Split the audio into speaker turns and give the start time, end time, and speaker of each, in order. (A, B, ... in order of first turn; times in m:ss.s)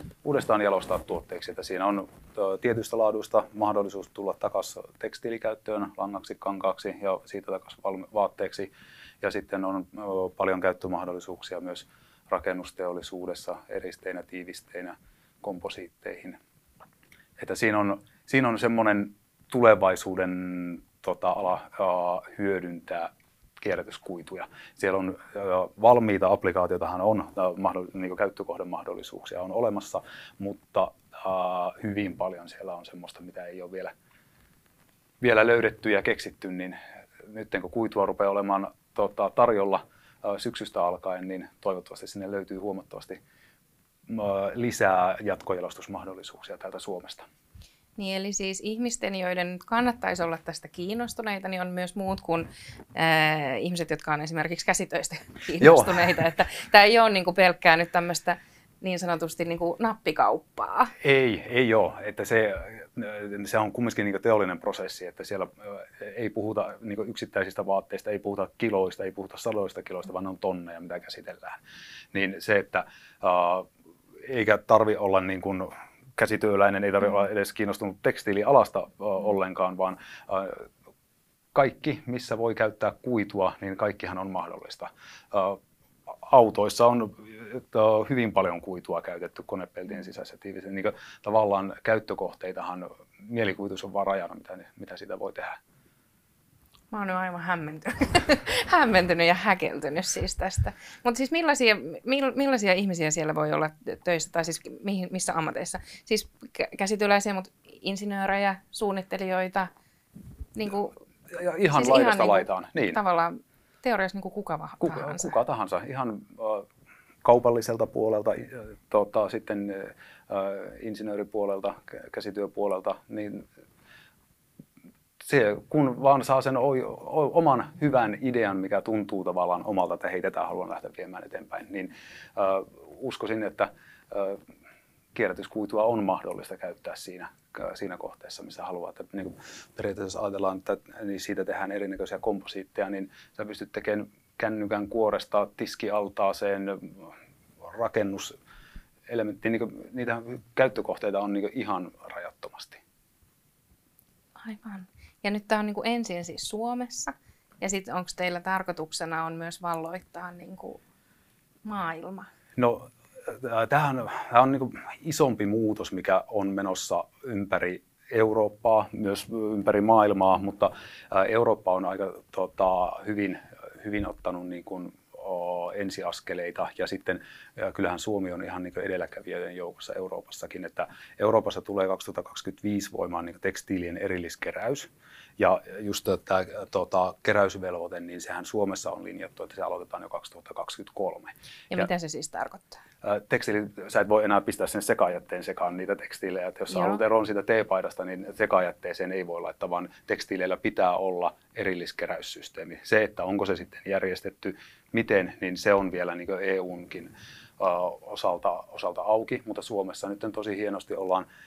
0:00.2-0:16.4 A
0:17.4-0:33.9 A
0:35.2-0:43.2 A
0:44.1-0:47.2 A
0:48.0-1:00.9 B
0:55.6-0:56.2 A
1:01.0-1:11.6 A
1:12.1-1:13.7 A
1:14.2-1:20.7 A
1:21.5-1:25.6 A
1:26.2-1:35.6 A
1:36.9-1:49.7 B
1:50.5-1:50.9 B
1:51.3-1:53.0 A
1:51.7-1:55.4 B
1:54.8-1:56.7 A
1:57.2-2:03.5 A
2:05.2-2:14.4 A
2:15.1-2:27.1 A
2:27.7-2:28.3 A
2:29.1-2:32.8 A
2:34.4-2:40.8 B
2:41.6-2:42.3 B
2:42.6-3:11.9 A
3:11.7-3:12.8 B
3:13.0-3:31.3 A
3:16.7-3:17.0 B